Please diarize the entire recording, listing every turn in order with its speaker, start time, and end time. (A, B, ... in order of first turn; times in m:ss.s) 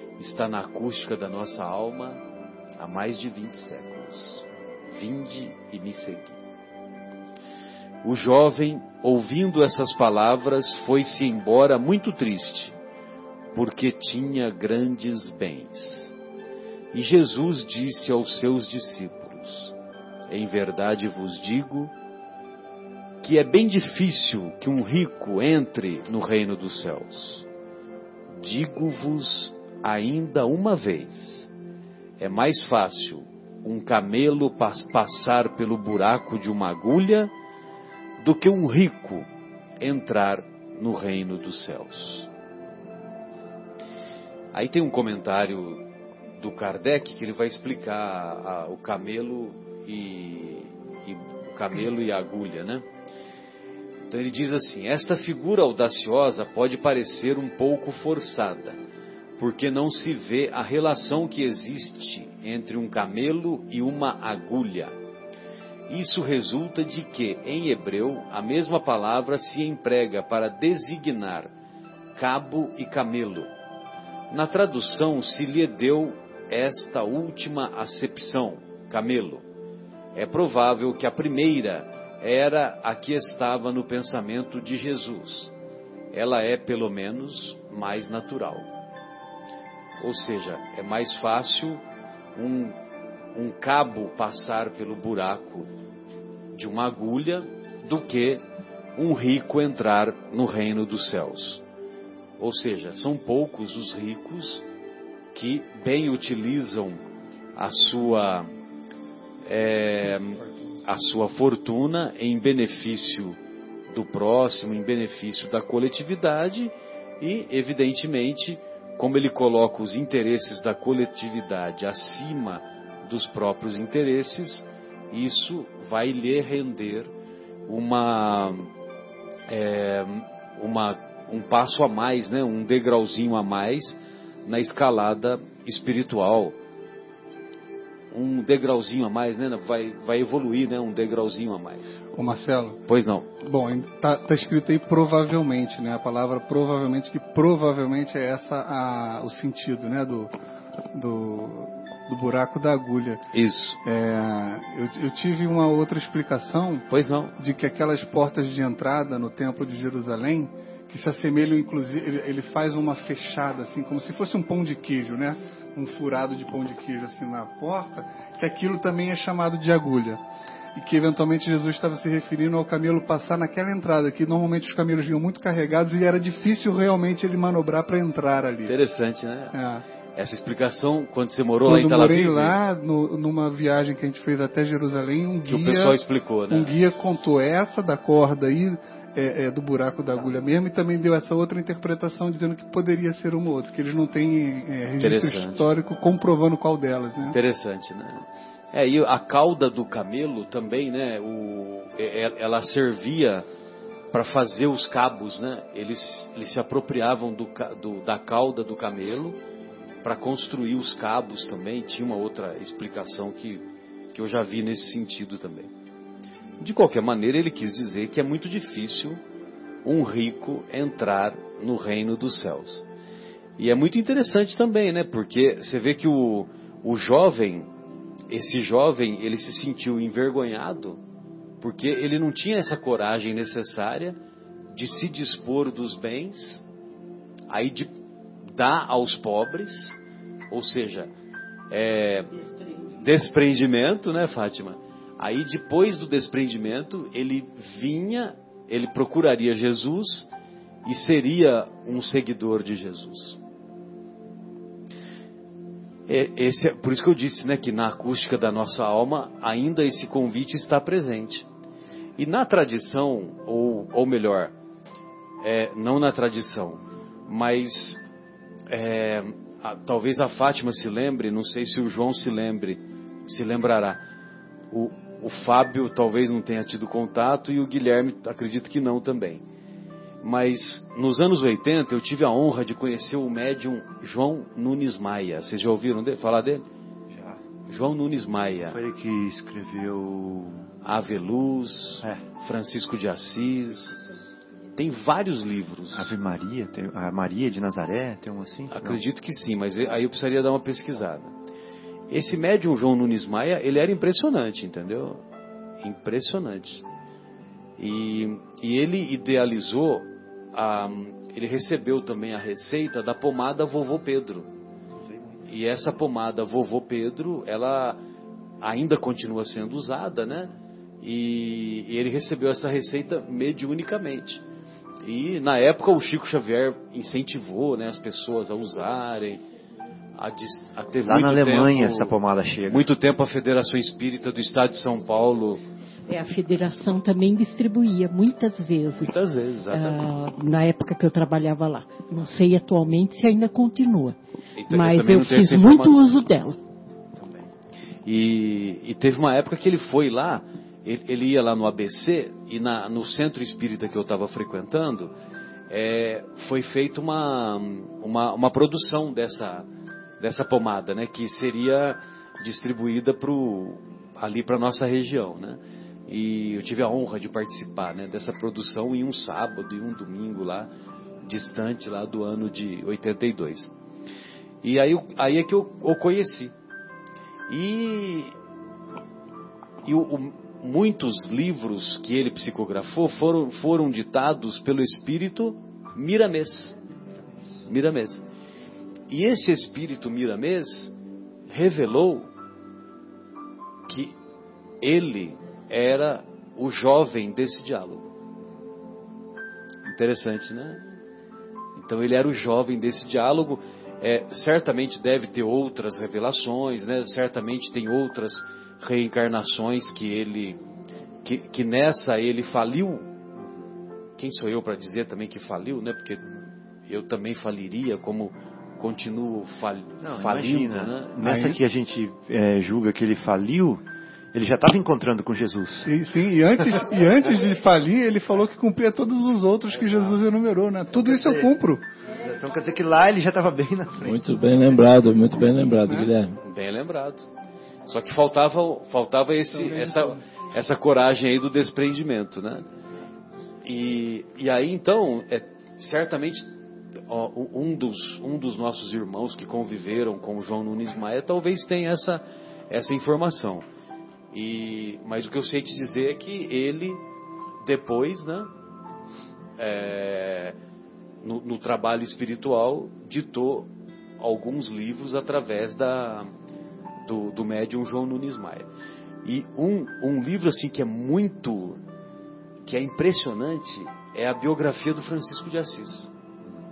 0:00.2-0:02.2 A
0:02.8-0:06.4 A
0:08.0-0:12.7 A
0:13.5-0:16.1 A
0:16.9-0:19.7 A
0:20.3-0:21.9 A
0:23.2-0:27.4 A
0:28.3-0:31.5 A
0:32.2-0:37.3 A
0:38.2-0:39.3 A
0:39.8-0:42.3 A
0:44.5-0:45.8 A
0:46.4-0:52.8 A
0:54.1-0:58.8 A
0:59.4-1:04.9 A
1:05.9-1:11.5 A
1:12.2-1:13.5 A
1:14.3-1:19.4 A
1:20.1-1:25.5 A
1:26.1-1:28.7 A
1:30.0-1:31.8 A
1:32.4-1:32.8 A
1:33.3-1:35.7 A
1:36.5-1:38.4 A
1:39.0-1:41.6 A
1:42.4-1:44.6 A
1:45.3-1:47.0 A
1:47.6-1:48.5 A
1:49.4-1:53.4 A
1:53.9-2:07.1 A
2:07.7-2:08.7 A
2:09.5-2:16.6 A
2:18.1-2:22.0 A
2:22.2-2:22.8 B
2:22.9-2:23.3 A
2:23.4-2:30.3 B
2:30.9-2:33.2 B
2:33.3-2:33.8 A
2:33.8-2:36.8 B
2:36.9-2:37.4 A
2:37.4-2:50.2 B
2:50.7-2:58.8 B
2:58.6-2:59.6 A
2:59.5-2:59.8 B
3:00.2-3:02.6 A
3:01.7-3:17.4 B
3:05.5-3:06.8 A
3:15.0-3:15.6 A
3:17.2-3:23.4 A
3:24.1-3:29.4 A
3:30.0-3:35.7 A
3:36.6-3:39.2 A
3:39.8-3:42.8 A
3:43.6-3:47.7 A
3:48.3-3:51.0 A
3:51.6-3:54.2 A
3:54.7-3:56.6 A
3:57.5-3:57.9 A
3:58.4-4:00.0 A
4:00.5-4:01.1 A
4:01.7-4:02.3 A
4:02.9-4:10.3 A
4:10.8-4:13.4 A
4:16.1-4:21.4 A
4:22.2-4:24.5 A
4:25.4-4:28.0 A
4:28.7-4:34.0 A
4:34.7-4:39.4 A
4:40.2-4:46.6 A
4:47.1-4:47.4 C
4:47.7-4:48.8 A
4:48.7-4:50.6 C
4:50.8-4:54.0 A
4:54.8-4:56.1 A
4:55.9-4:59.0 C
4:58.7-5:01.3 A
5:02.1-5:05.2 A
5:05.8-5:06.8 A
5:07.8-5:14.5 A
5:15.0-5:15.4 C
5:15.5-5:18.0 A
5:18.6-5:24.4 A
5:25.0-5:29.4 A
5:30.2-5:32.2 A
5:31.0-5:32.9 C
5:32.7-5:35.6 A
5:36.1-5:39.2 D
5:39.0-5:40.0 A
5:39.7-5:44.2 D
5:44.5-5:46.2 A
5:44.7-5:46.6 D
5:47.2-5:47.5 C
5:48.0-5:55.1 A
5:55.7-5:59.7 A
6:00.2-6:10.7 A
6:11.2-6:13.7 A
6:14.6-6:16.5 A
6:17.5-6:18.3 A
6:19.8-6:26.7 A
6:27.6-6:28.2 A
6:29.1-6:30.9 A
6:31.5-6:32.3 A
6:33.9-6:34.1 A
6:34.8-6:38.1 A
6:39.9-6:40.8 A
6:41.8-6:50.6 A
6:51.2-6:53.1 A
6:54.2-6:56.3 A
6:56.9-7:01.2 A
7:00.0-7:05.9 C
7:01.2-7:01.6 B
7:05.8-7:11.8 B
7:10.9-7:11.5 C
7:12.1-7:14.3 C
7:14.0-7:16.4 E
7:16.4-7:17.3 A
7:17.8-7:22.6 A
7:19.5-7:20.2 B
7:23.6-7:26.5 A
7:27.1-7:33.6 A
7:34.3-7:37.0 A
7:37.6-7:38.5 A
7:39.6-7:40.6 A
7:41.2-7:46.3 A
7:47.0-7:48.7 A
7:49.2-7:51.8 A
7:52.6-7:56.1 A